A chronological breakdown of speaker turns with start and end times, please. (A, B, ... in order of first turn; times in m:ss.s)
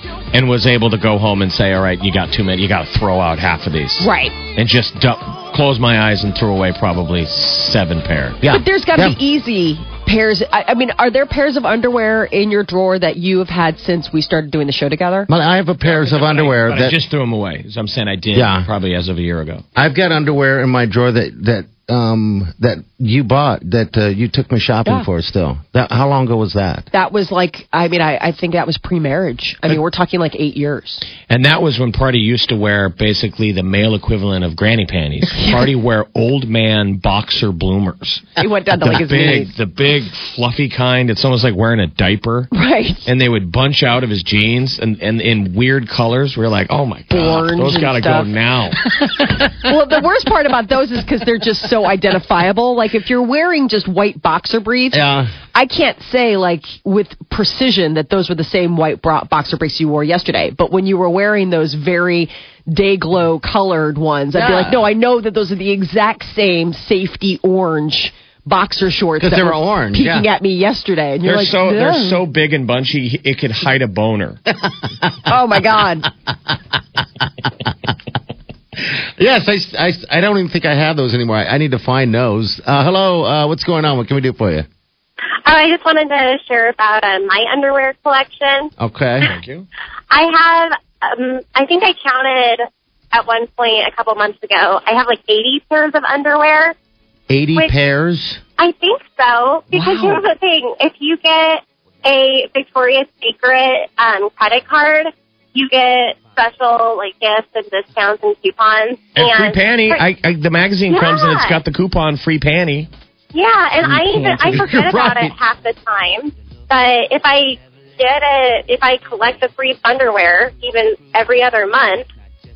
0:00.3-0:08.4 A
0:04.0-0:04.4 B
0:08.4-0:09.2 C
0:08.5-0:15.3 B
0:15.3-0:17.0 C
0:15.8-0:19.6 A
0:18.3-0:18.7 C
0:19.8-0:26.9 C
0:26.9-0:31.1 B
0:31.3-0:38.3 A
0:35.4-0:35.7 B
0:38.4-0:39.5 B
0:38.8-0:42.5 A
0:42.5-0:43.0 B
0:43.0-0:48.8 A
0:47.1-0:48.3 B
0:49.5-0:55.0 B
0:54.9-0:55.3 C
0:55.5-1:12.2 B
1:04.3-1:04.8 C
1:09.2-1:10.3 C
1:11.2-1:14.4 A
1:15.3-1:16.1 B
1:18.8-1:24.7 C
1:25.4-1:28.7 D
1:28.8-1:29.3 C
1:29.2-1:29.7 A
1:30.1-1:36.7 D
1:37.3-1:38.4 C
1:38.6-1:50.1 D
1:39.7-1:40.2 B
1:49.2-1:52.9 A
1:50.9-1:51.6 D
1:53.3-2:02.1 D
1:53.8-1:55.4 C